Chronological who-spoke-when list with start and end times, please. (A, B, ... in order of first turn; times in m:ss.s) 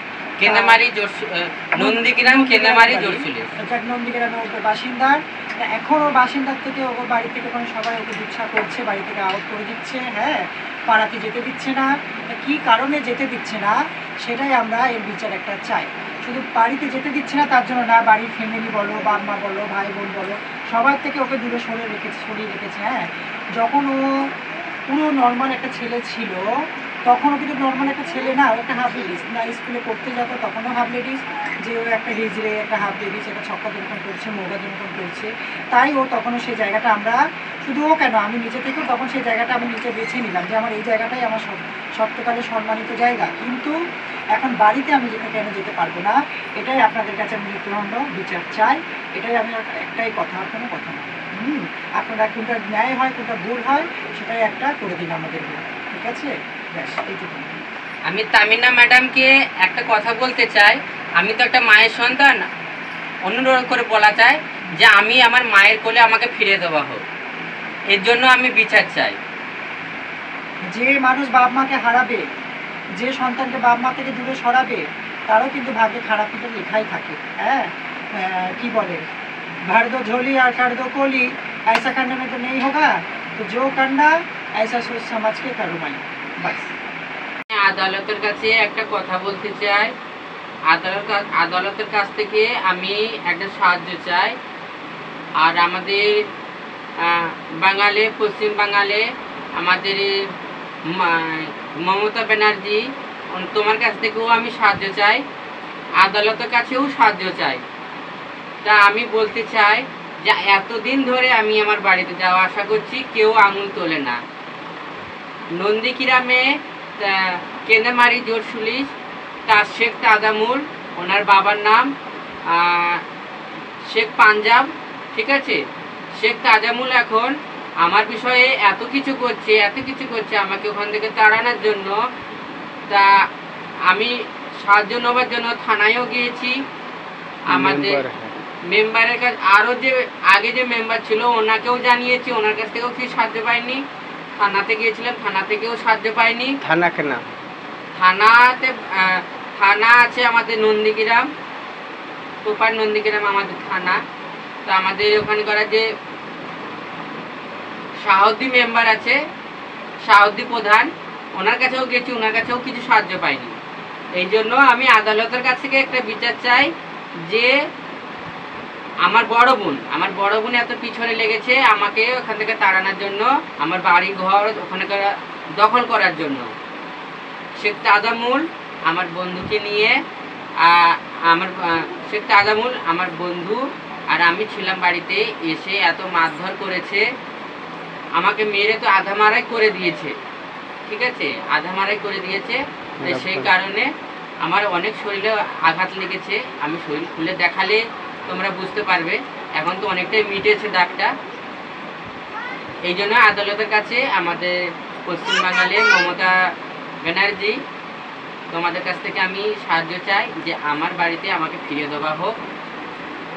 0:00.4-0:03.5 A
0:00.4-0:00.8 B
0:01.8-0:24.3 B
0:24.9-0:43.8 B
0:44.4-0:57.6 B
0:58.1-1:02.4 A
1:03.2-1:07.0 A
1:07.9-1:09.2 A
1:10.7-1:12.2 B
1:13.0-1:19.0 B
1:19.7-1:26.7 B
1:27.5-1:29.9 A
1:30.7-1:34.4 A
1:35.4-1:36.3 A
1:37.0-1:39.0 A
1:39.6-1:40.1 A
1:40.9-1:45.2 A
1:46.0-1:47.6 A
1:48.6-1:54.2 A
1:55.6-1:58.9 A
1:59.5-2:01.9 A
2:02.5-2:03.0 A
2:03.9-2:05.6 A
2:06.2-2:12.0 A
2:12.9-2:13.2 A
2:13.9-2:16.6 A
2:17.5-2:18.0 A
2:17.5-2:18.3 C
2:18.7-2:23.8 A
2:24.4-2:26.6 A
2:26.6-2:27.2 C
2:28.0-2:31.3 A
2:32.4-2:34.0 A
2:34.7-2:35.9 A
2:38.0-2:39.2 A
2:40.1-2:43.5 A
2:44.2-2:46.7 A
2:47.3-2:47.5 A
2:49.0-2:56.5 A
2:57.6-3:00.0 A
3:00.6-3:07.0 A
3:08.2-3:10.2 A
3:10.9-3:13.9 A
3:13.0-3:13.5 C
3:14.4-3:21.1 A
3:22.8-3:26.4 A
3:27.0-3:27.6 A
3:28.5-3:32.4 A